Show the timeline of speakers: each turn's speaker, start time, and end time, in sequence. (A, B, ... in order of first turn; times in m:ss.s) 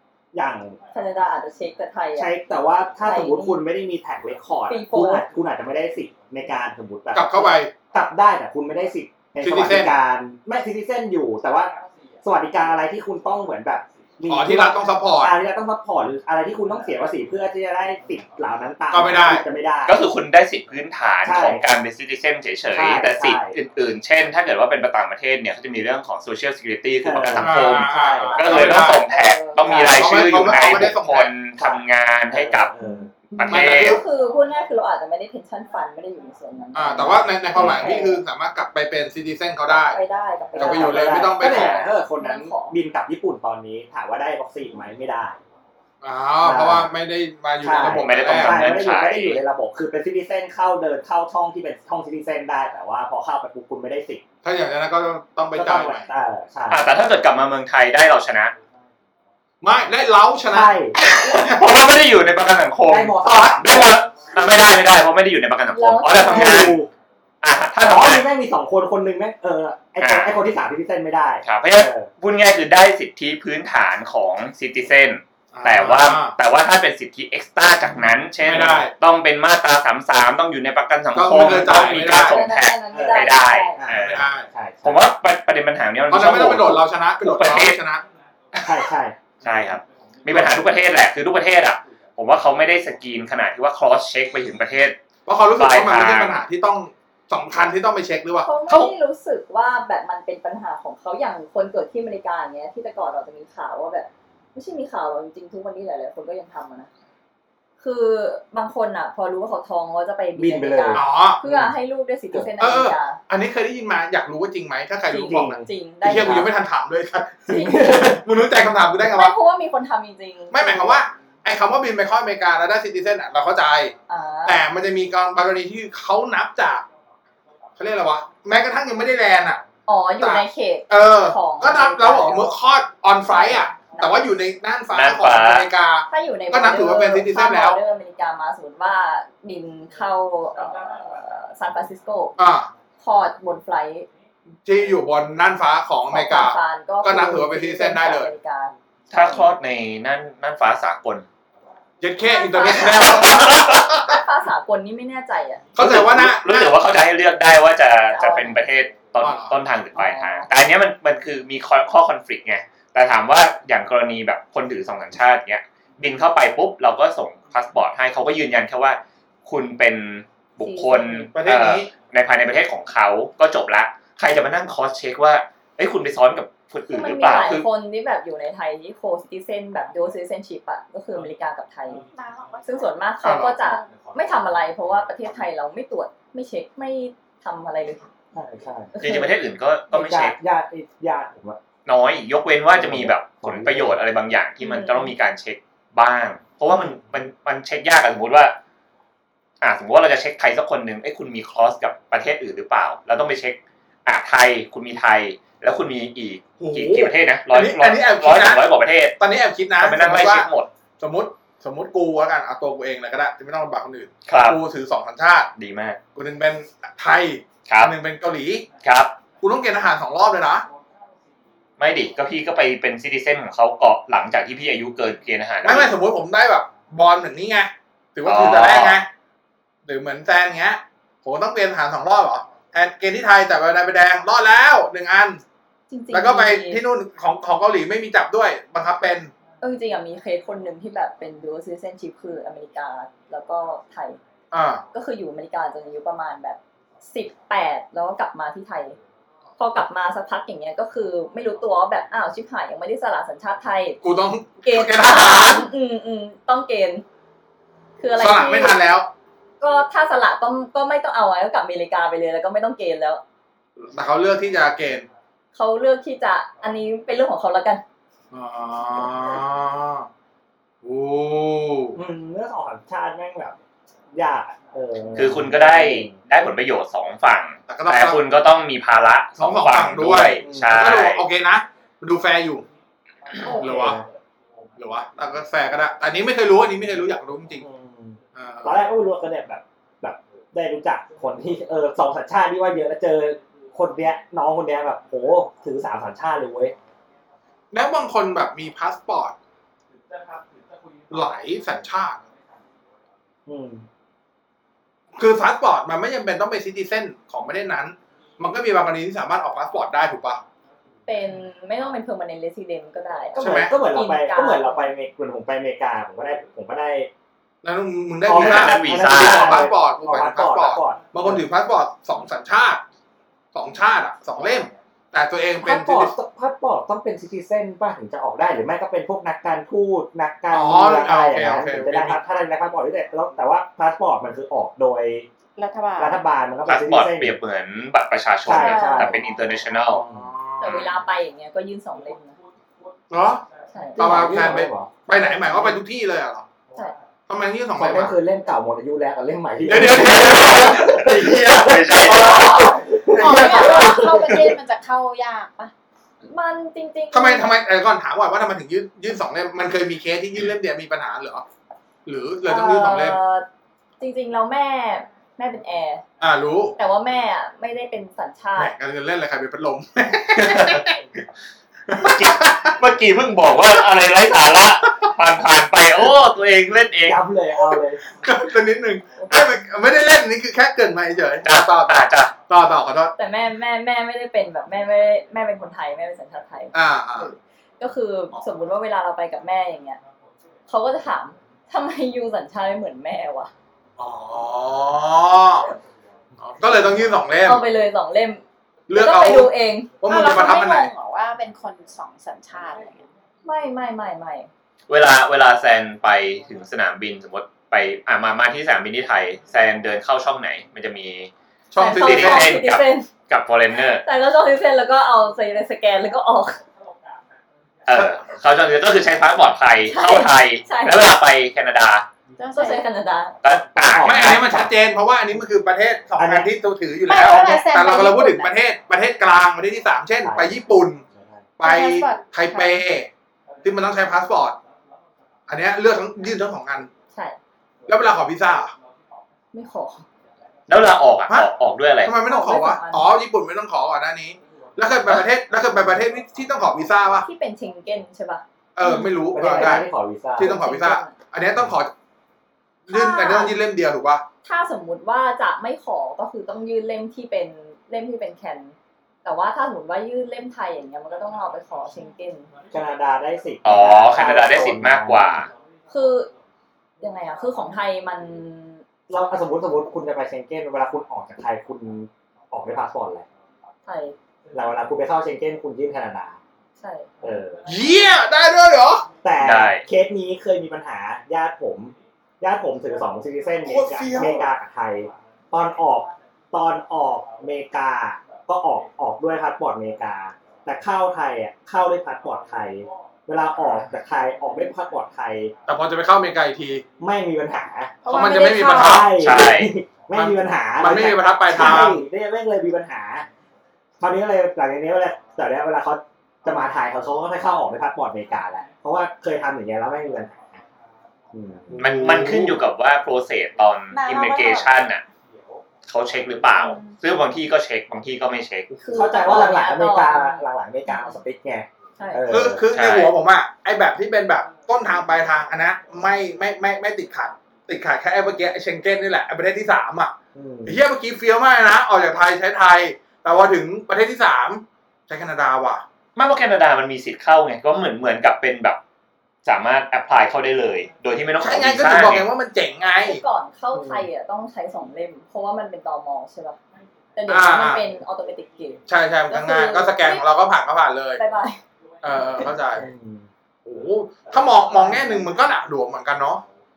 0:00.3-0:00.8 A
0:00.9-0:02.3 B
0:02.2-0:20.0 A
0:03.0-0:03.6 B
0:04.7-0:05.2 B
0:07.1-0:07.7 C
0:09.4-0:10.0 C
0:14.3-0:15.3 C
0:18.9-0:19.4 C
0:19.9-0:32.7 D
0:21.2-0:21.6 A
0:22.7-0:23.6 A
0:27.0-0:28.4 A
0:27.4-0:29.0 C
0:28.1-0:30.0 B
0:29.6-0:30.9 A
0:29.9-0:31.3 C
0:31.6-0:33.1 A
0:33.3-0:34.0 D
0:33.4-0:38.2 B
0:33.4-0:34.0 C
0:36.7-0:40.0 C
0:39.8-0:42.8 B
0:40.5-0:45.4 A
0:40.6-0:41.8 C
0:46.0-0:48.8 C
0:46.4-0:46.9 A
0:47.6-0:54.2 A
0:47.8-0:49.4 D
0:54.4-0:56.1 C
0:55.5-0:56.9 A
0:56.7-0:58.5 D
0:59.6-1:00.8 C
1:00.5-1:01.0 A
1:01.0-1:06.8 D
1:02.9-1:04.0 A
1:03.3-1:03.6 C
1:05.7-1:06.7 B
1:06.1-1:06.9 A
1:07.4-1:08.3 D
1:07.8-1:12.1 A
1:10.0-1:10.4 D
1:11.4-1:27.8 D
1:15.5-1:16.4 C
1:18.4-1:18.9 C
1:21.1-1:22.4 C
1:22.0-1:23.9 B
1:22.9-1:25.1 A
1:24.0-1:24.5 C
1:26.1-1:28.0 C
1:28.6-1:29.2 A
1:29.4-1:35.0 D
1:30.3-1:30.6 C
1:35.3-1:38.5 C
1:35.6-1:36.4 D
1:38.4-1:46.9 B
1:47.8-1:53.2 B
1:50.4-1:51.7 A
1:50.9-1:51.4 C
1:52.6-1:59.4 C
1:55.1-1:56.4 B
1:55.2-1:56.5 A
1:57.5-1:58.2 B
1:57.5-1:58.2 A
1:59.0-2:01.0 B
2:00.5-2:03.9 C
2:04.1-2:04.6 B
2:04.4-2:06.9 C
2:07.8-2:09.6 C
2:09.9-2:12.5 B
2:10.2-2:17.8 C
2:13.3-2:14.3 B
2:14.9-2:15.7 D
2:16.1-2:22.4 B
2:22.4-2:22.7 C
2:23.0-2:24.1 B
2:24.6-2:28.3 C
2:26.1-2:29.5 B
2:29.1-2:31.3 D
2:32.0-2:34.2 C
2:32.2-2:35.7 B
2:33.4-2:34.0 D
2:35.8-2:36.8 C
2:35.8-2:57.7 D
2:38.1-2:38.7 B
2:39.2-2:39.6 C
2:40.0-2:40.5 B
2:50.6-2:51.3 B
2:51.3-2:51.9 C
2:56.9-3:02.0 B
3:02.1-3:03.0 E
3:02.6-3:08.1 B
3:03.2-3:03.6 C
3:03.6-3:03.8 E
3:08.3-3:09.0 A
3:09.0-3:09.4 B
3:09.0-3:10.4 D
3:09.9-3:11.6 A
3:11.9-3:18.6 D
3:12.7-3:14.0 A
3:14.6-3:15.1 B
3:19.6-3:29.2 D
3:26.6-3:28.7 C
3:29.2-3:30.5 C
3:29.8-3:30.7 D
3:31.0-3:35.5 C
3:34.3-3:34.6 D
3:35.6-3:36.0 D
3:36.2-3:38.7 C
3:37.7-3:37.9 D
3:38.8-3:39.2 D
3:39.4-3:40.7 C
3:41.8-3:45.9 D
3:45.6-3:49.1 C
3:48.3-3:49.0 D
3:49.9-3:55.4 C
3:55.9-3:56.8 B
3:56.1-3:59.3 C
3:59.6-4:04.2 B
4:04.5-4:04.8 C
4:04.9-4:09.0 B
4:09.6-4:14.0 B
4:14.0-4:15.7 C
4:14.6-4:17.0 B
4:18.0-4:18.8 B
4:18.2-4:19.1 C
4:19.6-4:23.2 B
4:23.8-4:25.1 C
4:25.5-4:27.8 B
4:28.3-4:30.1 C
4:30.8-4:32.0 C
4:32.0-4:33.6 A
4:34.1-4:36.2 A
4:35.1-4:41.2 D
4:37.7-4:38.2 C
4:39.4-4:42.7 C
4:40.4-4:40.8 A
4:43.4-4:44.1 A
4:43.4-4:44.0 C
4:44.8-4:47.6 C
4:47.6-4:56.7 A
4:48.4-4:48.8 C
4:57.7-4:59.4 C
5:01.1-5:02.2 C
5:03.5-5:03.8 A
5:05.2-5:10.4 C
5:11.1-5:14.9 B
5:13.3-5:17.1 A
5:13.4-5:13.7 C
5:17.6-5:22.8 C
5:18.3-5:21.4 A
5:18.3-5:19.7 D
5:23.5-5:26.1 C
5:25.6-5:35.3 A
5:30.5-5:32.2 C
5:35.6-5:36.2 E
5:36.0-5:37.4 A
5:36.7-5:40.0 D
5:38.4-5:39.3 A
5:38.6-5:39.2 E
5:39.9-5:40.3 A
5:40.0-5:41.0 C
5:40.6-5:42.4 B
5:43.1-5:43.4 C
5:43.7-5:44.3 B
5:44.0-5:45.8 A
5:44.0-5:46.5 C
5:47.3-5:48.2 C
5:47.8-5:54.5 A
5:49.6-5:54.3 C
5:51.3-5:52.8 D
5:53.2-5:55.7 E
5:56.2-5:57.6 B
5:57.1-6:01.4 C
6:02.1-6:03.2 C
6:02.4-6:03.4 B
6:04.0-6:06.0 B
6:06.2-6:06.8 C
6:06.8-6:08.7 B
6:08.6-6:11.0 C
6:10.4-6:10.9 D
6:11.9-6:12.8 C
6:12.0-6:17.2 D
6:17.0-6:18.0 A
6:17.7-6:23.1 C
6:19.2-6:19.5 B
6:21.4-6:22.4 D
6:23.2-6:30.0 B
6:26.7-6:27.3 C
6:30.7-6:33.5 B
6:34.0-6:35.7 C
6:36.4-6:37.6 C
6:37.4-6:40.0 B
6:38.9-6:40.9 C
6:40.0-6:43.1 E
6:43.4-6:44.5 B
6:44.9-6:51.3 D
6:51.7-6:52.6 C
6:51.8-6:53.2 B
6:51.9-6:54.0 D
6:54.0-6:56.6 B
6:57.9-7:02.1 D
6:59.9-7:01.2 B
7:02.4-7:02.9 E
7:02.5-7:03.4 B
7:03.4-7:04.6 D
7:03.5-7:04.7 A
7:04.0-7:11.0 C
7:06.2-7:06.5 A
7:07.1-7:08.5 E
7:10.2-7:10.6 A
7:11.1-7:11.5 A
7:11.6-7:13.1 C
7:11.6-7:12.9 E
7:13.6-7:14.6 C
7:15.5-7:16.9 C
7:17.1-7:17.4 B
7:17.9-7:18.7 C
7:19.5-7:20.1 B
7:20.7-7:22.2 D
7:22.0-7:27.3 C
7:22.2-7:23.1 B
7:27.2-7:29.7 B
7:28.8-7:31.9 C
7:29.3-7:30.6 A
7:30.4-7:31.2 B
7:32.9-7:34.2 C
7:32.9-7:33.6 B
7:34.4-7:42.5 B
7:42.7-7:45.4 A
7:43.6-7:45.5 D
7:45.9-7:46.3 B
7:47.0-7:48.8 B
7:49.1-7:53.3 A
7:53.9-7:54.2 B
7:54.5-7:56.4 A
7:56.8-7:57.2 B
7:57.2-7:57.6 A
7:57.6-7:59.1 C
7:59.2-8:15.5 A
7:59.4-7:59.9 D
8:03.6-8:04.5 C
8:15.7-8:16.8 C
8:17.0-8:23.3 A
8:18.0-8:19.1 E
8:18.1-8:19.3 C
8:19.1-8:19.7 D
8:20.1-8:22.0 C
8:24.0-8:30.6 A
8:31.3-8:31.8 A
8:31.8-8:32.6 C
8:31.8-8:35.0 D
8:33.9-8:34.7 E
8:35.8-8:38.7 D
8:36.7-8:37.0 B
8:38.7-8:39.2 C
8:38.8-8:41.2 B
8:38.9-8:42.7 A
8:42.0-8:42.3 B
8:42.3-8:55.8 C
8:42.7-8:43.1 D
8:50.4-8:50.8 A
8:56.2-8:58.8 D
8:59.4-9:02.3 D
9:01.4-9:03.2 C
9:03.0-9:06.6 B
9:03.7-9:04.1 A
9:07.2-9:10.2 B
9:07.3-9:07.9 C
9:08.9-9:11.2 C
9:11.2-9:11.6 B
9:12.0-9:12.9 C
9:12.7-9:13.3 A
9:13.7-9:16.4 C
9:14.6-9:15.3 A